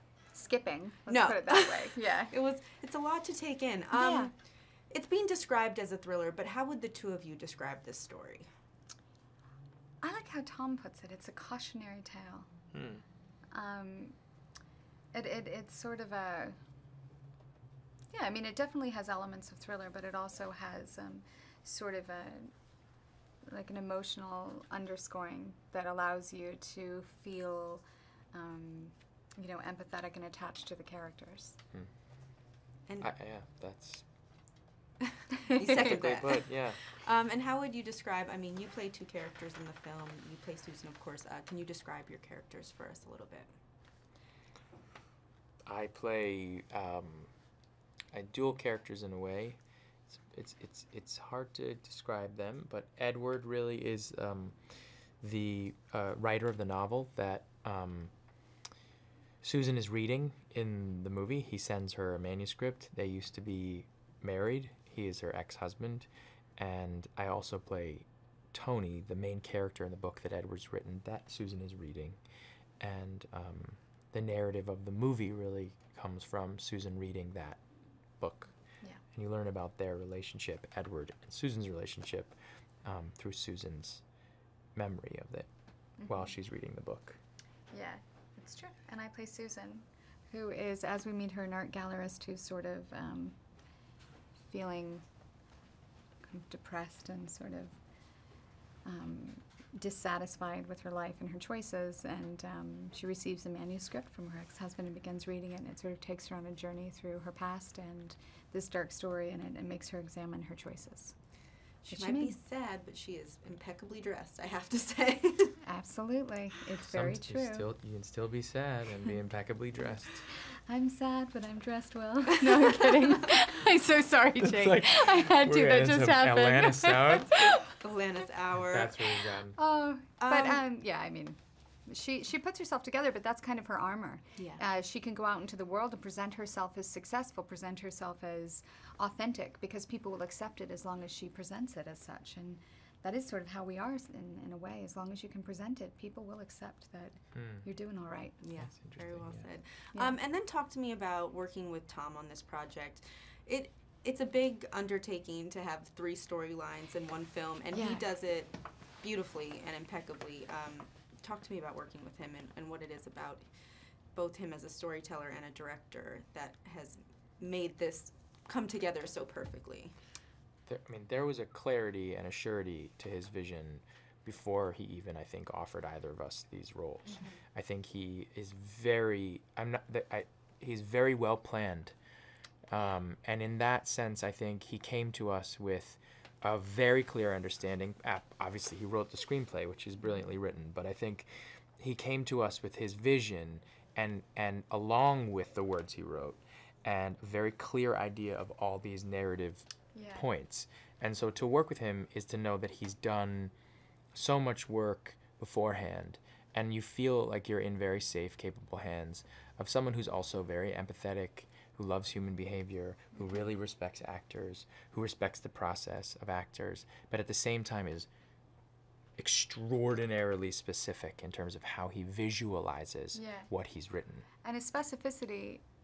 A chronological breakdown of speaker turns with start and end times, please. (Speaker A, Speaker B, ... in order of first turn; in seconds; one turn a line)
Speaker A: 0.3-2.3
Speaker B: 1.1-4.3
Speaker A: 3.9-4.3
Speaker B: 4.9-8.4
Speaker A: 10.0-12.5
Speaker C: 12.7-13.0
Speaker A: 13.5-14.1
Speaker A: 15.1-16.6
Speaker A: 18.1-22.5
Speaker A: 23.4-31.6
Speaker C: 33.0-34.1
Speaker A: 35.4-35.8
Speaker B: 35.5-43.5
Speaker C: 35.8-36.8
Speaker C: 45.7-47.3
Speaker C: 48.1-54.6
Speaker C: 55.2-58.1
Speaker C: 59.4-72.2
Speaker C: 72.8-77.6
Speaker C: 78.2-78.5
Speaker C: 79.1-84.0
Speaker C: 84.7-85.5
Speaker A: 86.0-86.3
Speaker C: 86.0-87.2
Speaker A: 87.7-93.3
Speaker A: 94.5-95.0
Speaker A: 96.3-97.8
Speaker A: 98.8-111.2
Speaker B: 111.8-115.6
Speaker A: 111.9-112.3
Speaker A: 115.6-117.7
Speaker C: 116.8-120.3
Speaker A: 120.3-127.7
Speaker C: 124.4-127.6
Speaker B: 127.7-129.0
Speaker C: 128.6-129.6
Speaker A: 129.3-148.4
Speaker B: 130.2-130.6
Speaker B: 134.4-134.6
Speaker C: 147.3-147.7
Speaker B: 148.4-163.5
Speaker C: 148.6-149.5
Speaker A: 157.7-158.1
Speaker B: 164.1-169.9
Speaker C: 170.7-181.9
Speaker A: 177.1-177.4
Speaker C: 182.7-203.5
Speaker A: 199.9-200.3
Speaker C: 204.1-218.1
Speaker C: 219.2-224.3
Speaker A: 223.1-223.5
Speaker A: 224.4-225.6